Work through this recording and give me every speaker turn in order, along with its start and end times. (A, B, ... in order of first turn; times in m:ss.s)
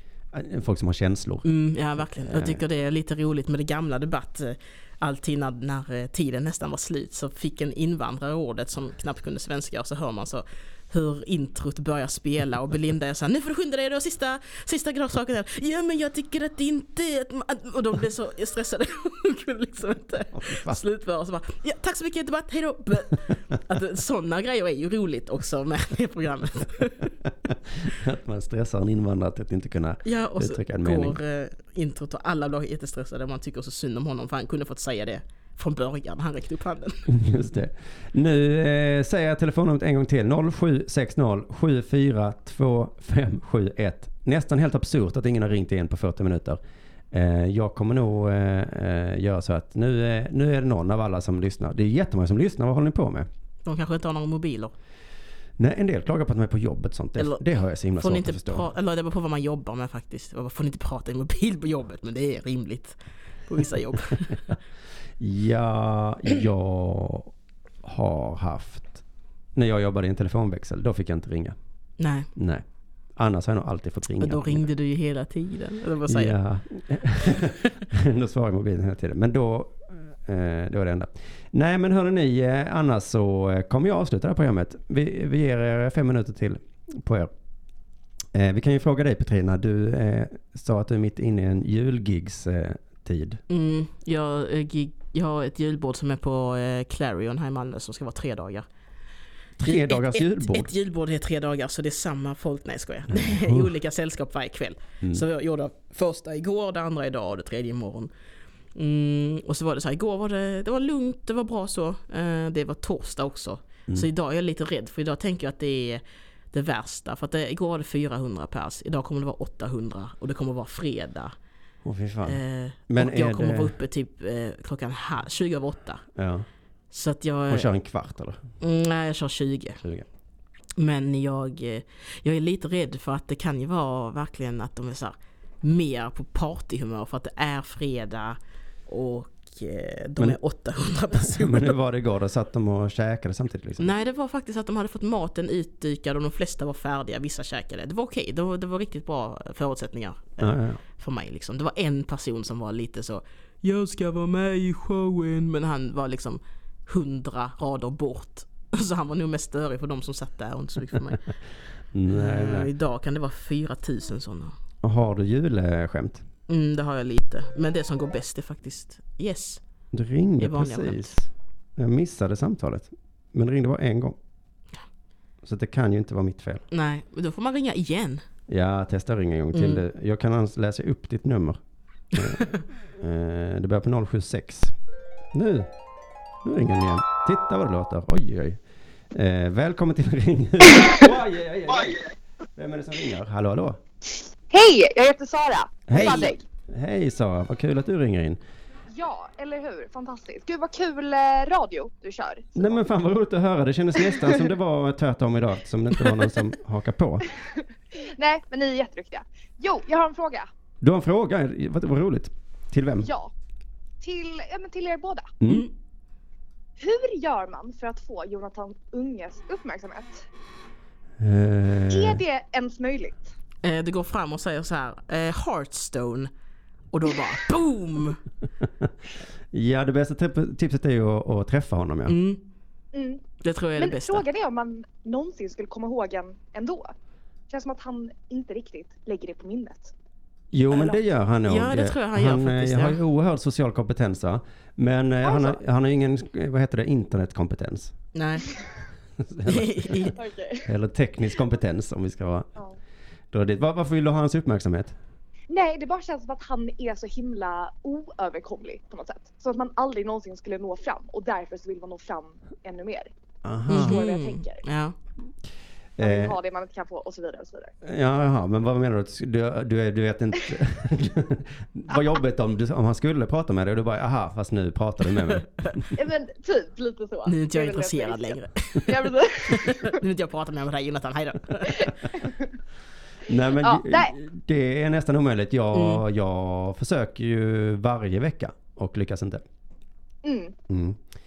0:00.3-0:01.5 A
0:01.4-0:27.1 B
0:02.0-0:02.6 A
0:20.3-0:20.8 A
0:27.5-0:31.2 A
0:30.0-0:37.0 B
0:37.1-0:46.6 A
0:47.1-0:53.3 A
0:53.6-0:54.7 B
0:55.6-0:58.7 A
0:57.2-1:04.4 B
1:05.2-1:07.3 A
1:07.8-1:09.0 A
1:09.6-1:11.6 A
1:12.0-1:12.3 B
1:12.4-1:12.6 A
1:13.2-1:14.6 A
1:14.2-1:16.4 B
1:16.1-1:27.3 A
1:28.3-1:33.4 A
1:33.5-1:38.7 B
1:39.6-1:40.7 A
1:39.6-1:48.1 B
1:43.1-1:43.7 A
1:48.7-2:01.3 B
2:01.8-2:03.8 A
2:02.3-2:06.0 B
2:06.2-2:06.5 A
2:06.9-2:07.7 B
2:07.5-2:08.4 A
2:08.6-2:09.8 B
2:09.8-2:10.0 A
2:10.8-2:21.8 B
2:21.2-2:24.0 A
2:23.8-2:41.2 B
2:30.4-2:30.8 A
2:41.9-2:42.7 A
2:42.1-2:44.6 B
2:44.8-2:46.2 A
2:46.5-2:49.6 B
2:49.9-2:54.2 A
2:50.4-2:51.1 B
2:55.4-2:56.6 A
2:56.7-2:58.2 B
2:58.5-3:01.6 A
2:59.5-2:59.8 B
3:02.1-3:04.7 A
3:05.3-3:05.7 A
3:06.4-3:08.6 A
3:09.1-3:12.0 A
3:12.6-3:13.8 A
3:14.5-3:16.4 C
3:15.9-3:18.4 A
3:16.0-3:16.2 B
3:18.9-3:22.8 C
3:22.6-3:27.3 A
3:27.3-3:30.5 C
3:30.8-3:33.1 A
3:33.0-3:33.3 C
3:34.0-3:35.3 C
3:35.4-3:35.7 A
3:36.8-3:40.3 C
3:41.2-3:42.2 A
3:41.9-3:43.3 C
3:43.6-3:46.3 B
3:46.9-3:48.2 B
3:49.5-3:52.2 A
3:52.1-3:52.4 B
3:52.9-3:53.2 C
3:53.4-3:54.2 B
3:53.8-3:56.9 C
3:57.5-3:59.9 C
4:00.5-4:08.0 A
4:01.5-4:03.0 B
4:05.2-4:05.6 C
4:08.1-4:08.5 B
4:09.2-4:10.1 A
4:09.4-4:10.2 B
4:10.2-4:10.6 C
4:10.6-4:12.5 A
4:13.3-4:15.0 A
4:15.5-4:23.1 C
4:23.4-4:24.0 A
4:23.7-4:24.6 C
4:23.7-4:25.0 B
4:26.0-4:26.3 A
4:26.0-4:27.7 C
4:27.8-4:35.9 A
4:35.9-4:40.0 C
4:37.2-4:41.9 B
4:41.6-4:42.3 C
4:43.2-4:49.4 A
4:43.6-4:44.1 C
4:45.7-4:46.0 B
4:50.2-4:50.5 C
4:50.7-4:51.0 A